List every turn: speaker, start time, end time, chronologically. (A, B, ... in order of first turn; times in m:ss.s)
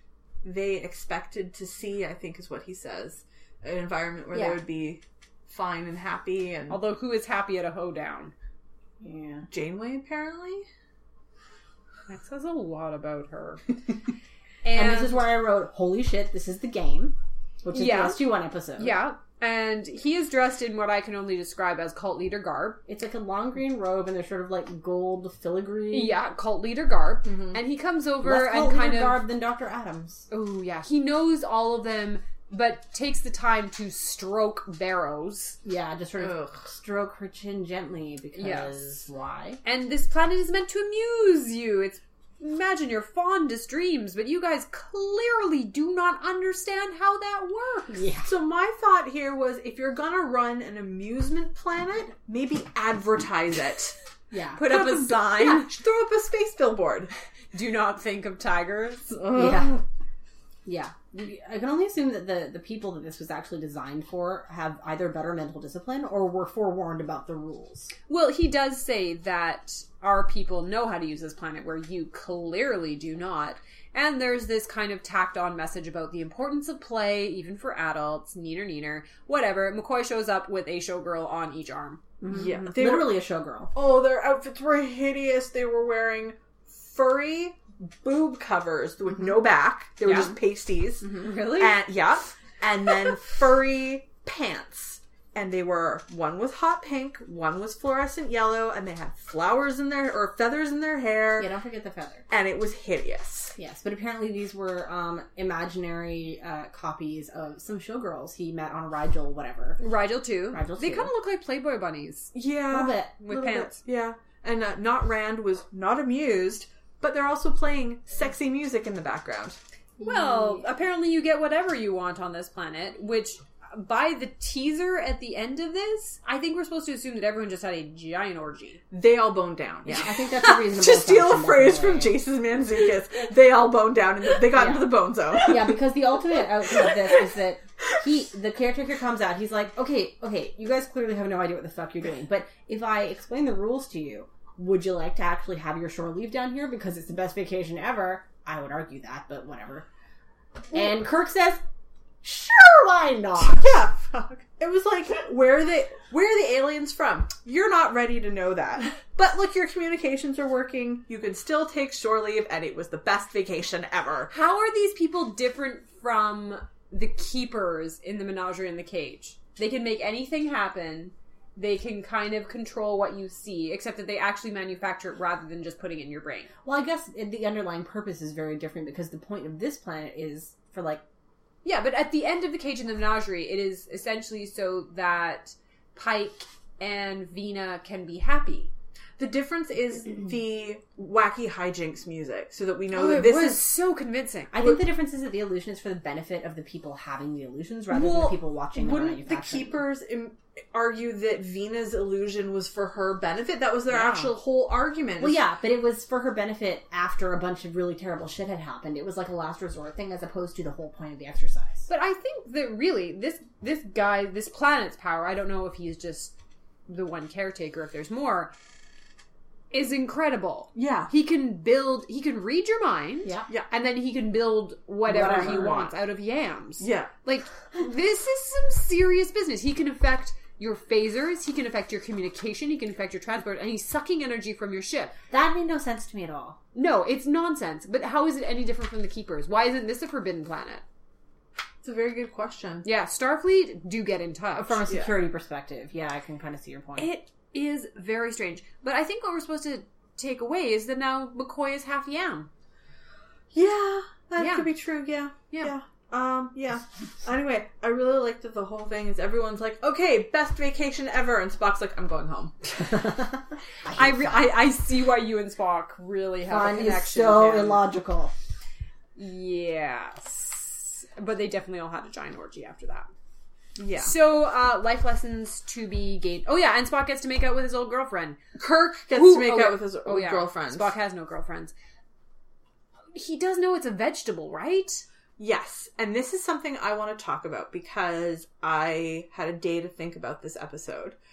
0:00.4-0:06.8 A
0:04.3-0:04.6 B
0:06.7-0:08.3 C
0:09.0-0:09.5 B
0:09.5-0:10.7 A
0:12.1-0:13.7 C
0:14.6-0:15.2 C
0:14.7-0:19.0 B
0:17.7-0:22.8 C
0:22.9-0:26.1 B
0:25.9-0:29.2 C
0:27.2-0:27.6 A
0:28.2-0:30.2 B
0:30.3-0:35.6 C
0:35.6-0:39.6 B
0:36.2-0:36.5 A
0:38.4-0:39.0 C
0:39.6-0:48.1 C
0:47.9-0:48.3 B
0:48.2-0:54.0 A
0:54.3-0:54.7 B
0:54.6-0:55.7 C
0:54.6-0:57.1 A
0:57.5-0:59.2 C
0:59.2-0:59.8 A
0:59.3-0:59.8 B
1:00.6-1:07.9 B
1:08.1-1:22.0 C
1:22.2-1:23.7 B
1:22.3-1:23.2 A
1:23.7-1:41.5 A
1:30.0-1:30.3 C
1:31.1-1:31.8 C
1:41.4-1:42.3 B
1:42.3-1:43.6 A
1:43.6-1:49.8 B
1:49.8-1:52.3 C
1:50.5-1:51.1 B
1:52.3-1:59.6 A
1:52.7-1:53.1 B
1:53.2-1:53.8 C
2:00.0-2:00.6 B
2:00.0-2:08.8 C
2:08.9-2:15.8 A
2:10.0-2:12.2 B
2:14.5-2:29.9 B
2:30.7-2:31.6 B
2:32.2-2:33.6 B
2:33.4-2:44.3 A
2:44.3-2:56.5 C
2:56.6-3:01.0 B
3:01.6-3:08.7 C
3:09.2-3:13.7 A
3:12.9-3:14.5 C
3:14.5-3:19.8 B
3:17.9-3:25.4 A
3:23.9-3:24.3 B
3:25.2-3:31.9 B
3:31.9-3:36.3 C
3:36.9-3:38.5 C
3:39.7-3:55.1 C
3:40.7-3:41.1 A
3:45.1-3:45.9 B
3:45.2-3:45.7 A
3:46.8-3:47.1 A
3:55.3-3:56.6 B
3:56.7-4:00.8 C
4:01.8-4:02.9 A
4:02.8-4:04.8 C
4:04.6-4:07.1 B
4:07.0-4:12.5 C
4:13.5-4:22.6 A
4:14.4-4:14.7 C
4:22.8-4:24.4 B
4:23.9-4:27.9 C
4:26.5-4:28.3 B
4:29.2-4:33.1 C
4:33.8-4:34.1 A
4:34.0-4:38.4 C
4:38.6-4:40.9 A
4:39.1-4:41.7 C
4:43.1-4:45.0 C
4:45.4-4:51.2 A